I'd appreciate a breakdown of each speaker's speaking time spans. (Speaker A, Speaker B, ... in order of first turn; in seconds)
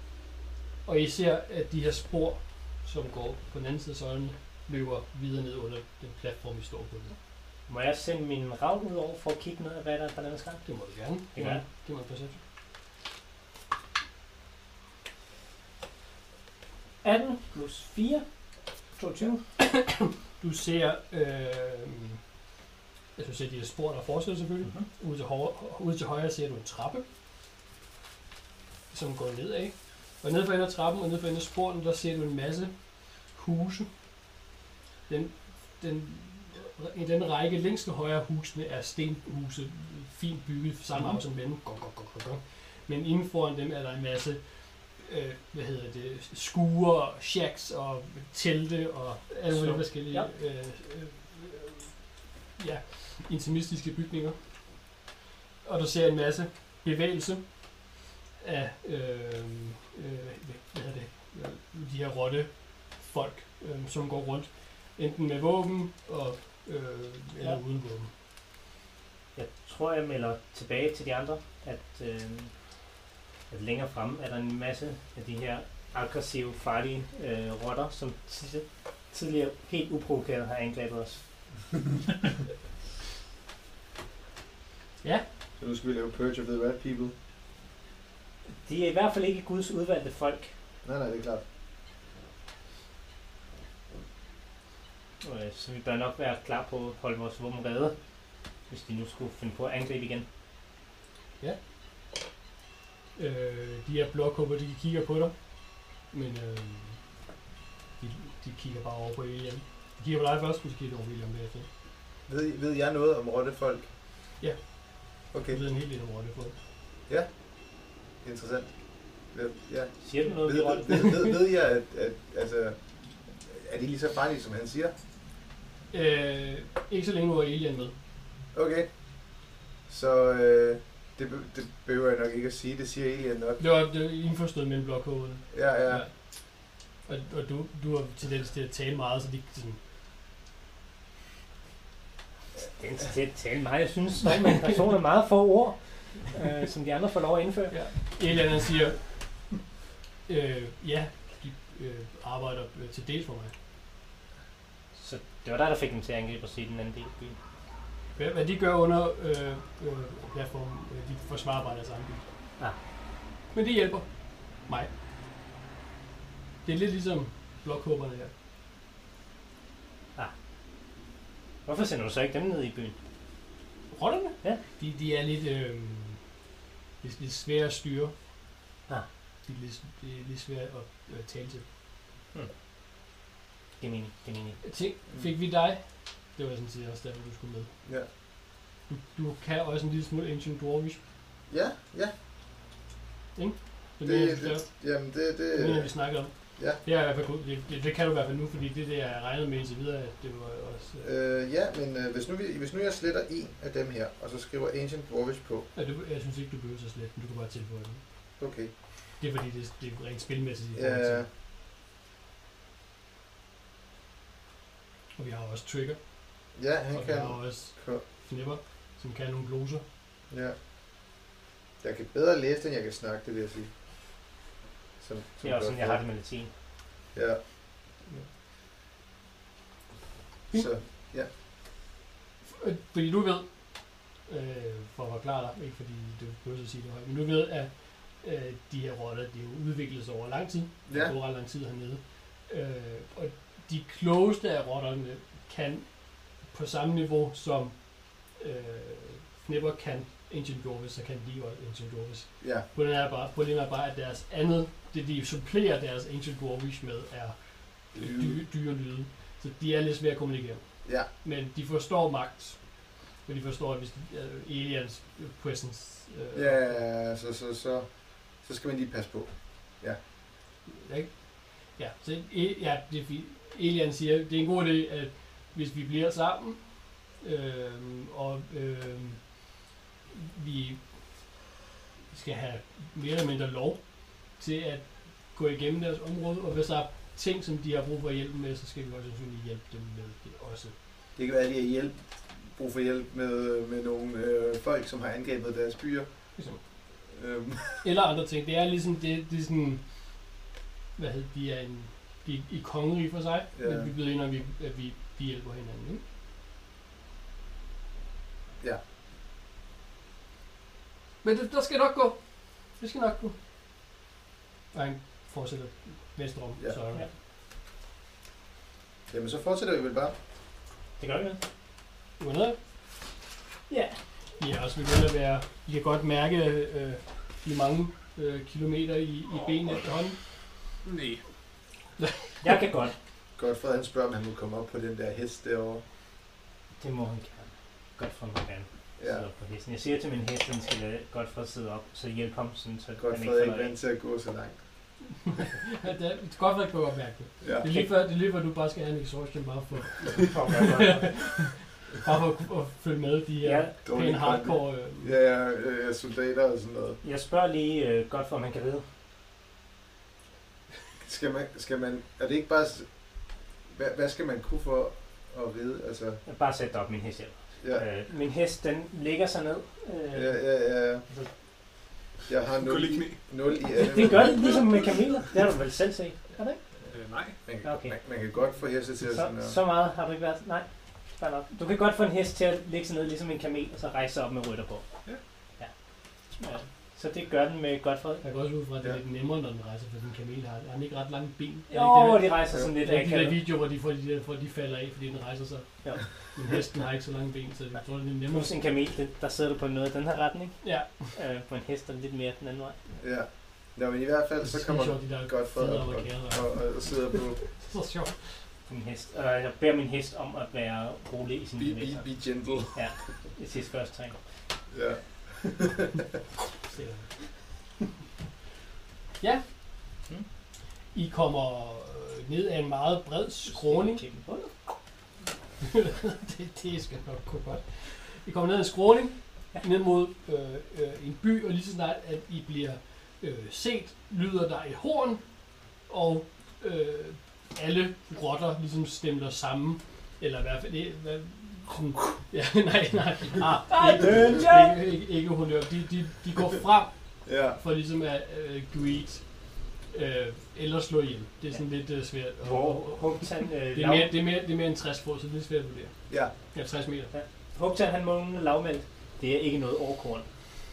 Speaker A: 0.8-7.2, 10.7-12.4, 19.6-22.2, 23.1-27.0, 28.9-32.7, 33.3-33.9, 35.1-44.4, 45.0-51.9, 52.6-54.4, 55.6-57.5, 58.4-68.1, 103.2-107.0, 108.0-111.7, 114.4-116.5, 125.9-127.9, 133.6-139.8, 147.7-149.5, 150.3-153.5, 158.2-162.3, 163.5-164.1, 164.6-164.9, 166.6-168.3, 173.9-176.2, 177.0-178.1, 179.4-181.6, 184.6-187.7, 188.9-191.0, 193.3-194.7, 195.5-201.1, 205.7-208.0, 209.2-211.2, 215.2-216.0, 216.9-219.8, 232.4-233.5, 234.2-266.8, 270.7-279.3, 280.1-280.8, 282.1-290.7, 297.8-299.8, 300.9-306.0, 311.2-312.2, 312.7-313.3, 314.7-317.1, 322.2-322.6, 324.4-330.2, 345.3-355.1, 388.2-398.5, 400.6-401.1, 404.4-406.6, 407.5-408.4, 416.7-417.1, 420.9-424.0, 425.6-435.2, 435.8-446.9, 447.5-456.0, 456.5-457.1
Speaker B: 7.7-10.6, 11.3-11.6, 17.0-18.2, 18.9-19.4, 49.5-50.3, 69.3-72.5, 73.5-81.2, 88.6-90.5, 95.2-97.9, 98.7-100.2, 120.0-121.2, 142.6-147.8, 155.0-157.4, 171.7-172.9, 183.8-184.6, 225.4-226.5, 321.0-321.4, 323.7-324.0, 332.4-332.9, 336.8-343.7, 350.1-351.3, 353.4-353.7, 357.0-358.8, 366.2-370.5, 373.8-376.6, 377.6-377.9, 379.0-384.9, 386.3-388.2, 391.7-393.4, 398.3-402.8, 408.7-414.2, 423.5-424.5, 443.7-444.8, 452.4-454.1, 457.1-460.3
Speaker C: 85.6-87.1, 90.8-91.4, 112.3-113.9, 115.3-115.6, 118.2-124.9, 128.5-128.9, 129.9-133.6, 135.5-136.1, 191.5-192.1, 194.0-196.8, 201.0-205.7, 208.4-208.7, 210.8-211.3, 216.5-218.0, 220.3-220.6, 221.8-223.7, 225.0-226.0, 227.1-227.4, 230.5-231.3, 240.9-241.1, 257.9-258.4, 266.3-270.0, 291.1-296.1, 297.1-297.8, 303.6-303.9, 319.1-320.1, 333.4-335.8, 339.0-339.2, 343.0-344.6, 347.4-347.7, 353.8-357.0, 361.0-362.9, 363.7-366.2, 370.1-371.0, 372.3-374.7, 377.4-379.6, 403.0-407.4, 411.6-412.9, 414.7-415.9, 447.2-447.6
Speaker D: 330.8-331.2, 372.6-373.2, 373.7-375.0, 376.9-377.4